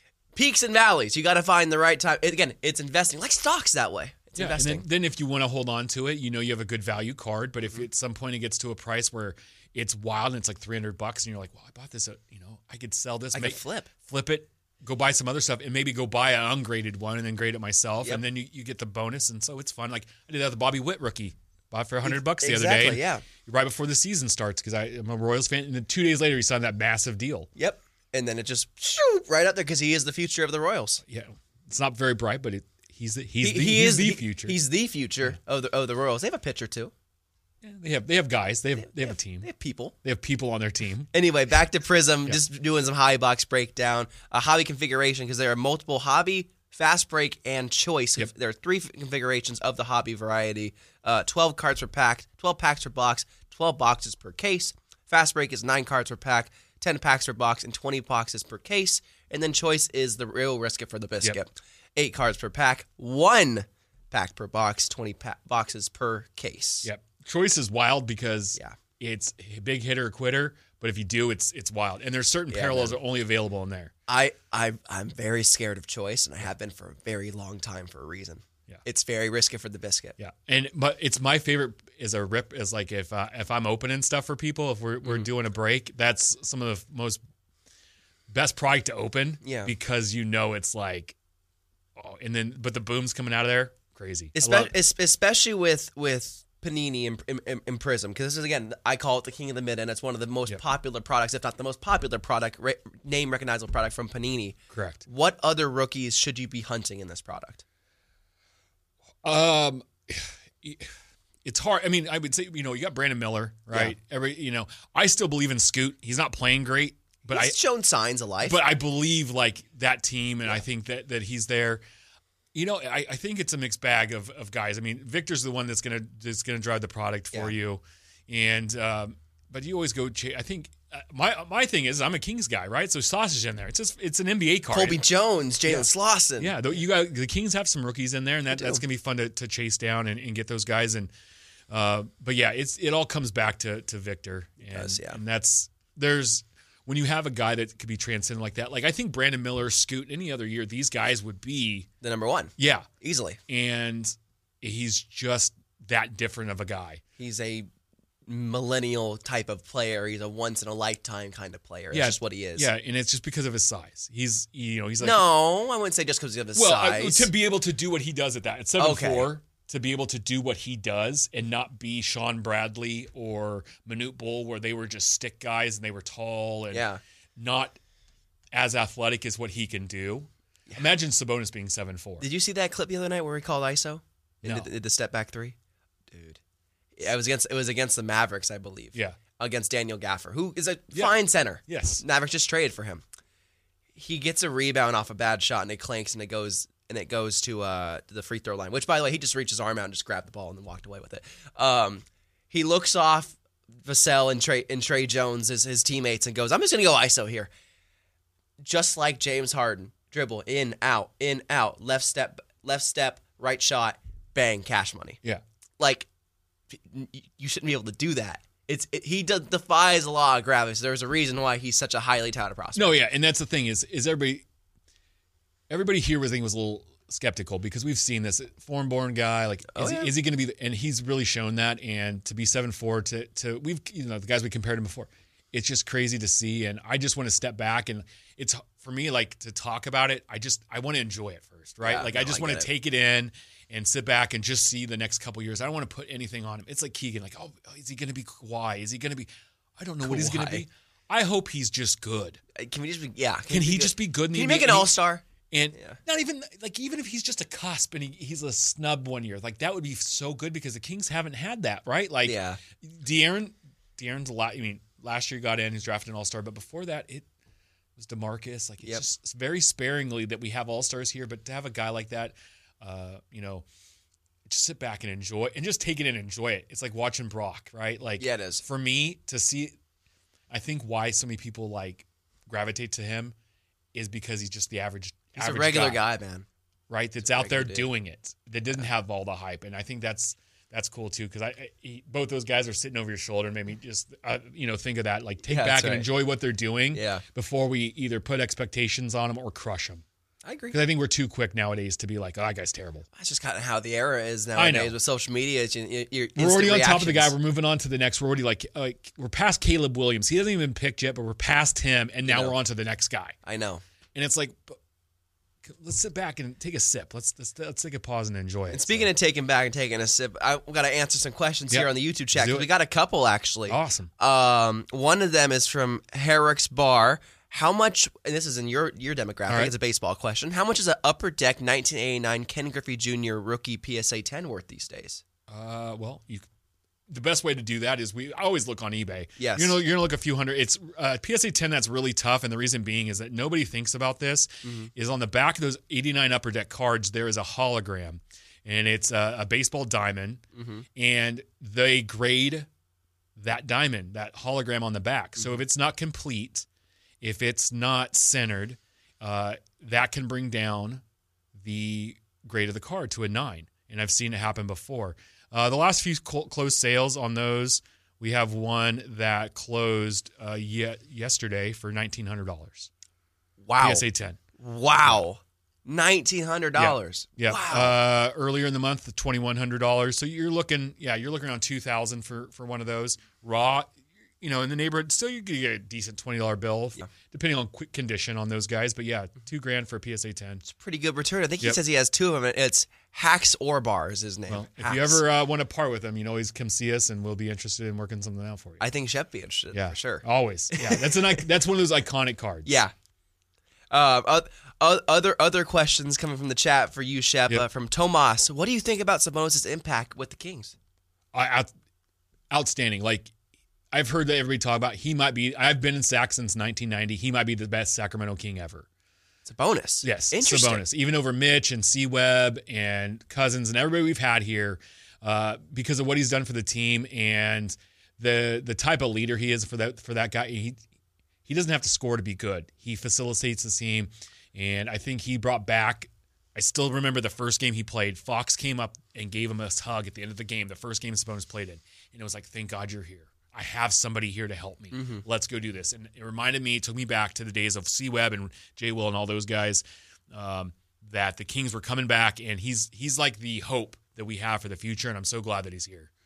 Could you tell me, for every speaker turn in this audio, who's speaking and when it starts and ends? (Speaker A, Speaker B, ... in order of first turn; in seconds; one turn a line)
Speaker A: 0.3-4.8
Speaker B: 4.4-27.5
Speaker A: 13.3-13.9
Speaker A: 22.0-23.2
Speaker A: 27.6-31.0
Speaker B: 31.1-34.6
Speaker A: 33.4-36.9
Speaker B: 37.6-39.5
Speaker A: 38.9-39.9
Speaker B: 40.0-41.1
Speaker A: 41.1-66.9
Speaker B: 66.8-73.9
Speaker A: 72.5-73.0
Speaker A: 74.1-80.2
Speaker B: 80.2-87.2
Speaker B: 88.3-91.2
Speaker A: 89.4-89.7
Speaker B: 92.0-94.7
Speaker A: 94.3-107.6
Speaker B: 104.7-105.0
Speaker B: 109.2-110.9
Speaker B: 111.4-117.6
Speaker A: 117.3-118.6
Speaker B: 118.4-121.8
Speaker B: 122.5-135.0
Speaker A: 134.7-136.6
Speaker B: 135.7-141.1
Speaker A: 138.5-138.8
Speaker B: 141.7-151.9
Speaker A: 144.7-145.2
Speaker A: 152.0-153.4
Speaker B: 152.6-152.9
Speaker B: 153.5-157.0
Speaker A: 157.2-157.7
Speaker A: 158.3-162.7
Speaker B: 161.9-165.2
Speaker A: 165.0-167.3
Speaker B: 166.6-177.8
Speaker A: 168.8-169.3
Speaker A: 176.7-177.0
Speaker B: 178.5-182.3
Speaker A: 182.2-185.6
Speaker B: 184.4-184.7
Speaker A: 186.1-186.4
Speaker A: 187.0-193.0
Speaker B: 190.9-192.0
Speaker A: 194.0-207.5
Speaker A: 208.6-215.2
Speaker A: 215.8-216.1
Speaker A: 216.7-222.9
Speaker B: 222.8-224.4
Speaker B: 225.7-252.4
Speaker A: 229.7-230.1
Speaker A: 241.8-242.7
Speaker A: 250.0-250.7
Speaker A: 252.6-255.2
Speaker B: 253.5-254.9
Speaker B: 255.5-267.3
Speaker A: 262.2-262.6
Speaker B: 268.0-273.6
Speaker B: 274.5-279.8
Speaker A: 278.2-278.6
Speaker B: 280.5-283.4
Speaker B: 283.9-286.0
Speaker A: 285.4-286.5
Speaker B: 286.9-300.0
Speaker A: 287.2-287.9
Speaker A: 295.5-296.1
Speaker A: 296.9-297.2
Speaker A: 300.4-300.8
Speaker B: 300.7-303.1
Speaker A: 303.1-307.3
Speaker B: 304.6-304.9
Speaker B: 306.4-313.4
Speaker A: 312.3-312.6
Speaker A: 313.4-313.8
Speaker B: 314.1-314.8
Speaker B: 315.6-319.1
Speaker A: 318.7-335.2
Speaker B: 321.7-322.7
Speaker B: 323.7-324.1
Speaker B: 329.5-329.8
Speaker B: 335.5-336.5
Speaker B: 337.1-350.4
Speaker A: 339.4-339.8
Speaker A: 344.6-344.9
Speaker A: 350.6-350.9
Speaker B: 350.9-352.7
Speaker B: 353.4-356.7
Speaker B: 357.2-361.0
Speaker B: 361.6-372.9
Speaker A: 373.6-374.1
Speaker B: 373.8-374.4
Speaker A: 374.6-378.0
Speaker B: 376.8-390.6
Speaker A: 390.6-395.2
Speaker B: 394.5-398.8
Speaker A: 398.8-401.4
Speaker B: 399.7-402.7
Speaker A: 402.7-402.9
Speaker A: 403.9-410.7
Speaker B: 411.3-411.7
Speaker B: 412.5-413.3
Speaker B: 413.9-418.9
Speaker A: 419.5-420.9
Speaker B: 420.0-430.8
Speaker B: 431.5-456.1
Speaker A: 444.9-445.2